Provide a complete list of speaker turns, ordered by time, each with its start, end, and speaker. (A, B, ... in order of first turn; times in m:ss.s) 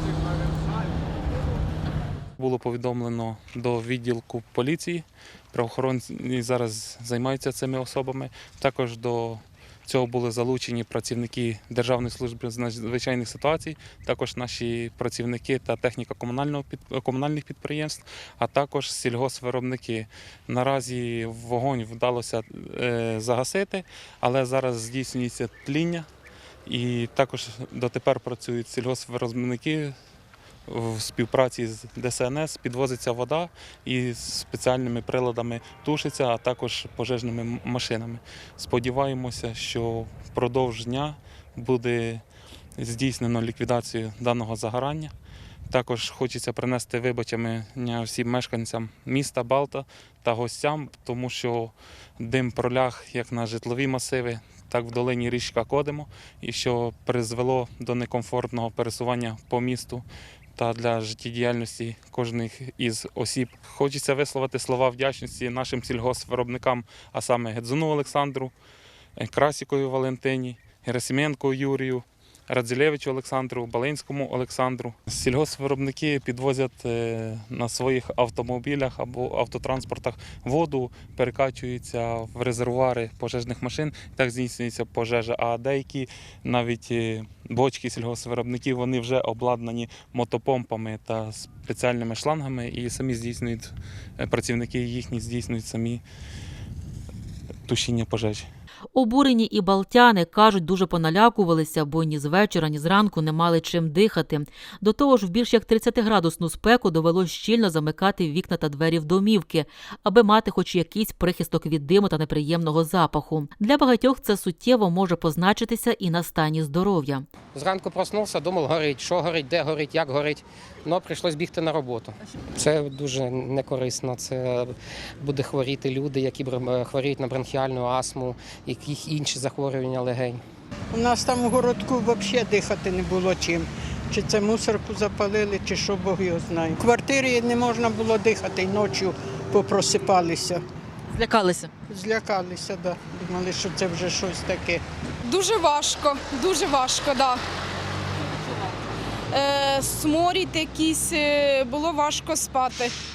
0:02.4-0:26.0 A
0:26.7-0:29.9 A
0:30.7-0:42.2 A
0:42.8-0:45.1 A
0:45.7-1:00.0 A
1:00.6-1:08.5 A
1:09.2-1:36.0 A
1:37.7-1:38.5 A
1:38.9-1:57.2 B
1:57.5-2:10.4 C
2:10.9-2:20.6 D
2:21.1-2:21.7 B
2:21.9-2:24.8 D
2:25.2-2:27.4 E
2:29.3-2:32.9 E